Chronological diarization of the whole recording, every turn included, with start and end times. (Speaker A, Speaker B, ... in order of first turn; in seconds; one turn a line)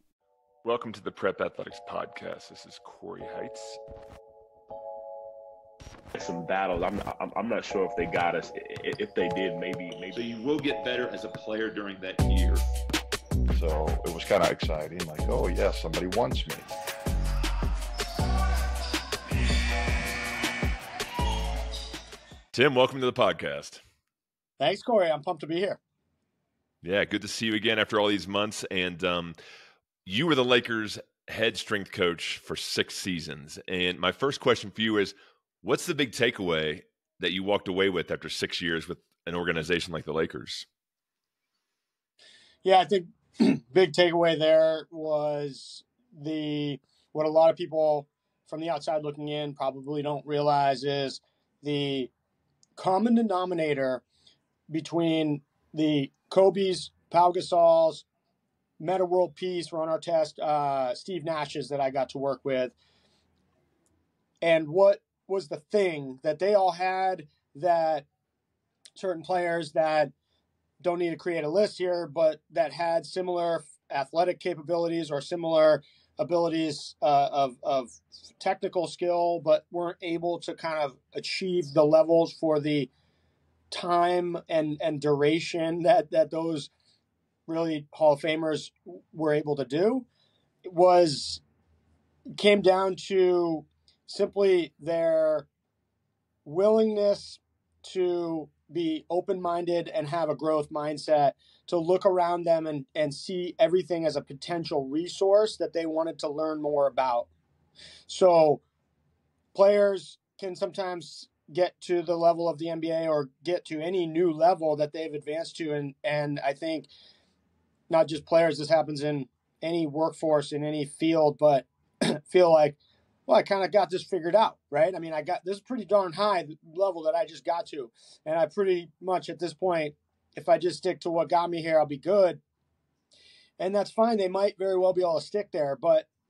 Speaker A: 0.6-3.8
Speaker B: 6.1-10.2
Speaker C: 10.2-12.6
Speaker D: 13.5-16.7
Speaker A: 22.5-23.8
Speaker E: 24.6-25.8
Speaker A: 26.8-29.4
Speaker A: 30.0-40.7
Speaker E: 42.6-52.1
Speaker E: 52.8-54.0
Speaker E: 54.7-58.0
Speaker E: 58.8-62.7
Speaker E: 64.4-68.0
Speaker E: 69.0-70.1
Speaker E: 70.8-82.9
Speaker E: 83.7-86.7
Speaker E: 87.5-90.0
Speaker E: 90.6-91.4
Speaker E: 92.4-95.5
Speaker E: 96.4-107.3
Speaker E: 108.1-108.6
Speaker E: 109.5-116.9
Speaker E: 117.9-132.4
Speaker E: 133.6-136.1